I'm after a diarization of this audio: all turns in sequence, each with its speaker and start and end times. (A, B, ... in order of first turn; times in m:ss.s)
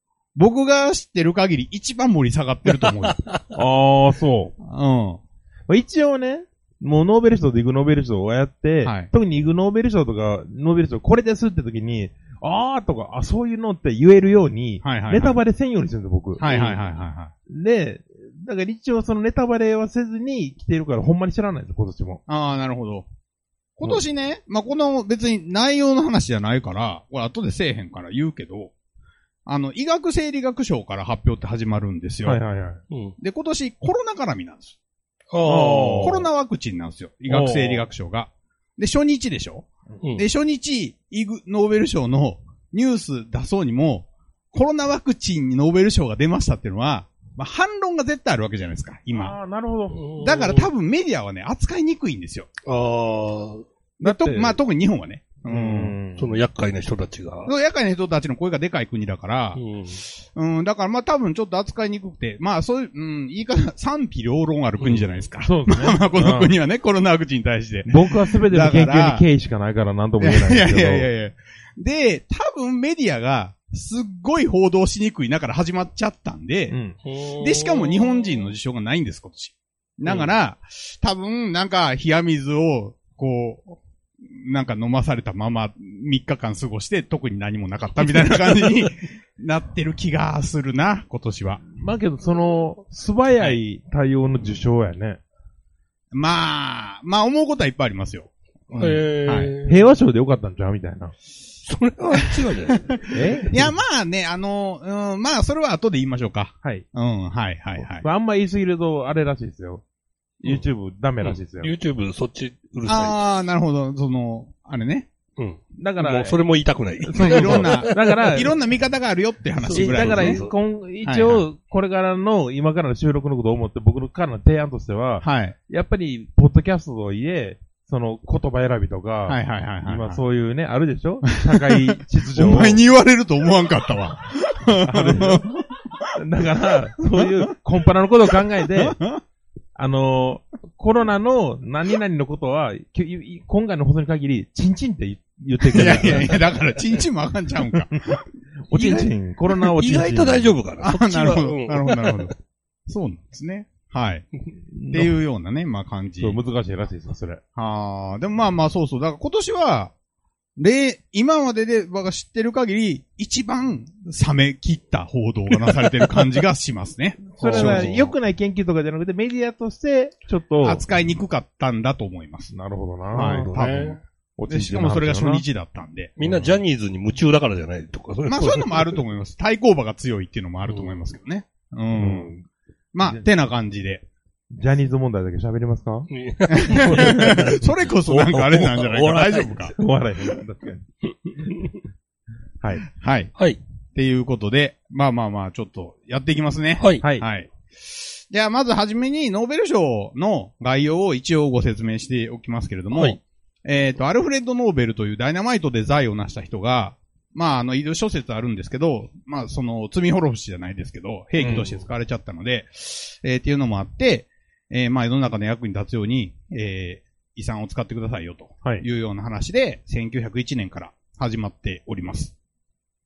0:00.3-0:03.2 A
0:03.0-0:03.4 B
0:03.6-0:04.6 C
0:04.6-0:05.2 A
0:05.7-0:16.8 C
0:08.8-0:09.1 A
0:14.8-0:15.4 A
0:16.4-0:17.3 A
0:17.5-0:22.2 C
0:22.3-0:23.1 A
0:23.8-0:28.7 A
0:29.4-0:32.4 A
0:32.2-0:32.8 C
0:33.2-0:34.8 A
0:35.3-0:36.2 B
0:35.4-0:36.2 C
0:36.0-0:49.4 A
0:37.3-0:37.8 C
0:49.1-0:50.0 C
0:49.9-0:50.7 B
0:50.2-0:52.5 A
0:52.6-0:53.6 B
0:54.0-0:56.0 A
0:54.0-0:54.6 C
0:55.5-0:56.3 C
0:56.2-0:57.5 B
0:57.4-0:59.6 A
0:59.6-1:00.0 B
1:00.3-1:09.2 A
1:04.8-1:05.2 B
1:05.4-1:06.5 C
1:07.9-1:11.1 C
1:10.2-1:16.8 A
1:16.7-1:17.0 C
1:17.0-1:18.4 B
1:17.4-1:31.6 A
1:31.7-1:35.2 C
1:36.1-1:39.5 A
1:38.8-1:39.8 B
1:39.6-1:41.1 C
1:41.6-1:43.5 B
1:43.1-1:43.8 C
1:43.5-1:48.1 A
1:47.8-1:49.8 C
1:50.4-1:51.7 C
1:51.2-1:53.2 B
1:52.8-1:55.1 A
1:55.4-1:58.2 B
1:55.8-1:56.4 C
1:57.0-1:58.6 C
1:57.1-2:00.4 A
1:59.6-2:00.6 B
1:59.7-2:12.8 C
2:01.0-2:01.4 A
2:05.2-2:05.6 A
2:09.3-2:10.2 A
2:11.3-2:15.6 A
2:14.8-2:15.6 C
2:16.1-2:19.0 C
2:18.6-2:19.2 A
2:19.8-2:26.4 C
2:25.7-2:28.2 A
2:25.9-2:26.4 B
2:28.7-2:30.5 C
2:28.7-2:32.3 B
2:30.8-2:32.3 A
2:32.9-2:34.3 A
2:34.7-2:35.1 C
2:34.9-2:36.4 A
2:36.2-2:37.4 C
2:37.6-2:39.9 A
2:40.6-2:47.9 A
2:47.4-2:50.8 C
2:47.4-2:48.1 B
2:50.6-2:52.5 A
2:52.5-2:53.8 C
2:53.1-2:56.1 A
2:53.1-2:54.0 B
2:54.4-2:55.4 C
2:56.2-2:59.0 B
2:56.2-2:56.6 C
2:58.3-3:02.3 A
3:00.7-3:00.9 B
3:01.9-3:02.4 C
3:02.9-3:04.0 A
3:04.5-3:06.1 C
3:06.1-3:09.5 B
3:06.5-3:09.8 A
3:06.8-3:07.3 C
3:09.7-3:10.8 C
3:11.3-3:11.8 B
3:12.6-3:12.8 C
3:13.0-3:13.3 A
3:13.9-3:42.3 A
3:16.8-3:17.0 B
3:22.9-3:23.2 B
3:31.4-3:31.6 C
3:31.4-3:31.7 B